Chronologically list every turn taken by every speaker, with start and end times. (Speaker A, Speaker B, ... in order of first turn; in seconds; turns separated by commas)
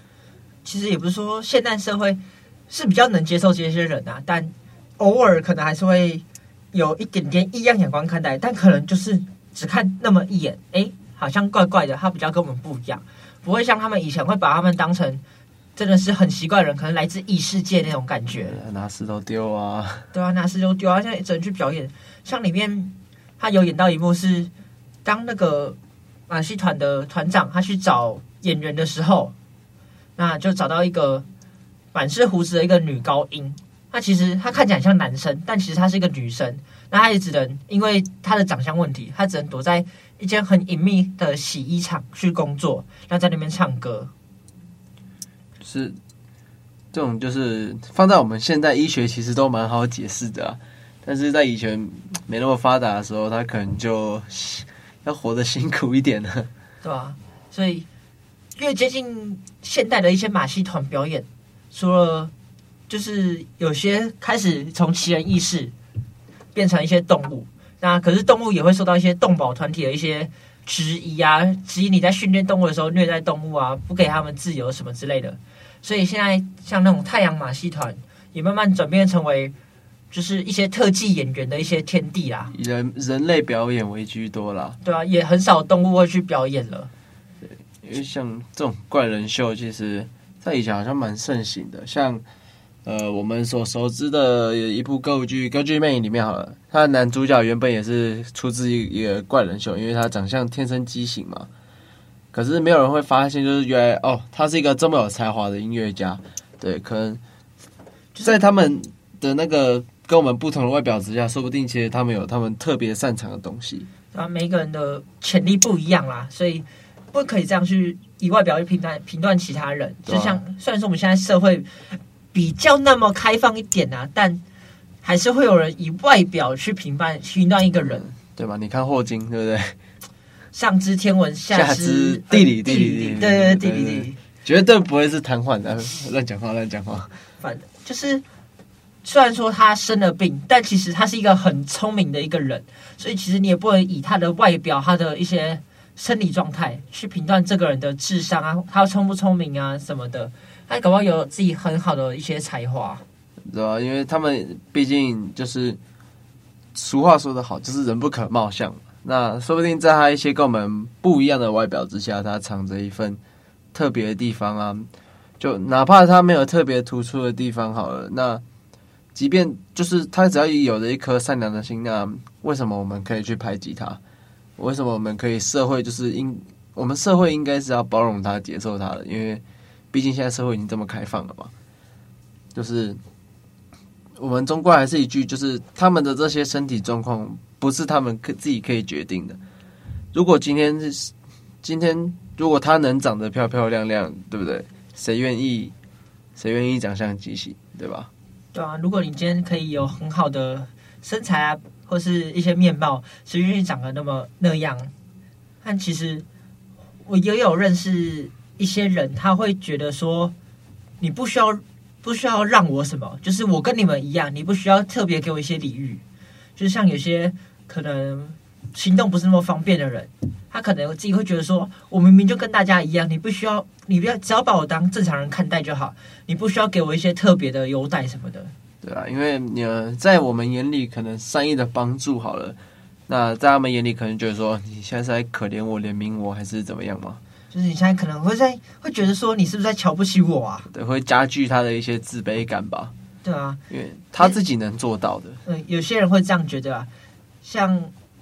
Speaker A: 0.6-15.2, Speaker A: 15.8-18.6, Speaker B: 18.4-20.1, Speaker A: 20.1-24.5, Speaker A: 25.0-25.8, Speaker A: 26.3-29.3, Speaker A: 30.2-31.2, Speaker A: 31.9-44.1, Speaker B: 45.6-46.0, Speaker B: 46.9-56.5, Speaker A: 56.8-57.9, Speaker A: 58.5-62.3, Speaker A: 62.9-65.7, Speaker A: 66.5-79.5, Speaker A: 80.1-82.5, Speaker B: 82.5-84.8, Speaker A: 84.8-86.9, Speaker B: 87.8-92.2, Speaker B: 92.8-101.5, Speaker B: 102.3-107.2, Speaker B: 108.2-113.9, Speaker A: 114.1-124.4, Speaker B: 120.0-120.4, Speaker A: 125.0-128.1, Speaker B: 127.9-129.8, Speaker A: 130.5-134.2, Speaker B: 131.5-137.1, Speaker A: 137.4-138.2, Speaker A: 139.0-153.0, Speaker B: 153.5-155.8, Speaker B: 156.7-163.2, Speaker B: 163.7-164.9, Speaker B: 165.4-168.4, Speaker B: 169.1-174.0, Speaker B: 174.6-181.5, Speaker B: 182.5-183.0, Speaker B: 184.2-189.4, Speaker B: 190.1-191.1, Speaker B: 191.6-195.7, Speaker B: 196.3-198.1, Speaker A: 198.5-204.9, Speaker A: 205.6-206.2, Speaker A: 207.0-210.3, Speaker A: 211.0-216.0, Speaker A: 216.6-228.5, Speaker B: 228.8-232.6, Speaker B: 233.1-237.2, Speaker A: 237.5-240.7, Speaker B: 240.7-242.9, Speaker A: 243.2-243.6, Speaker B: 243.7-245.4, Speaker A: 245.4-246.9, Speaker A: 247.4-247.9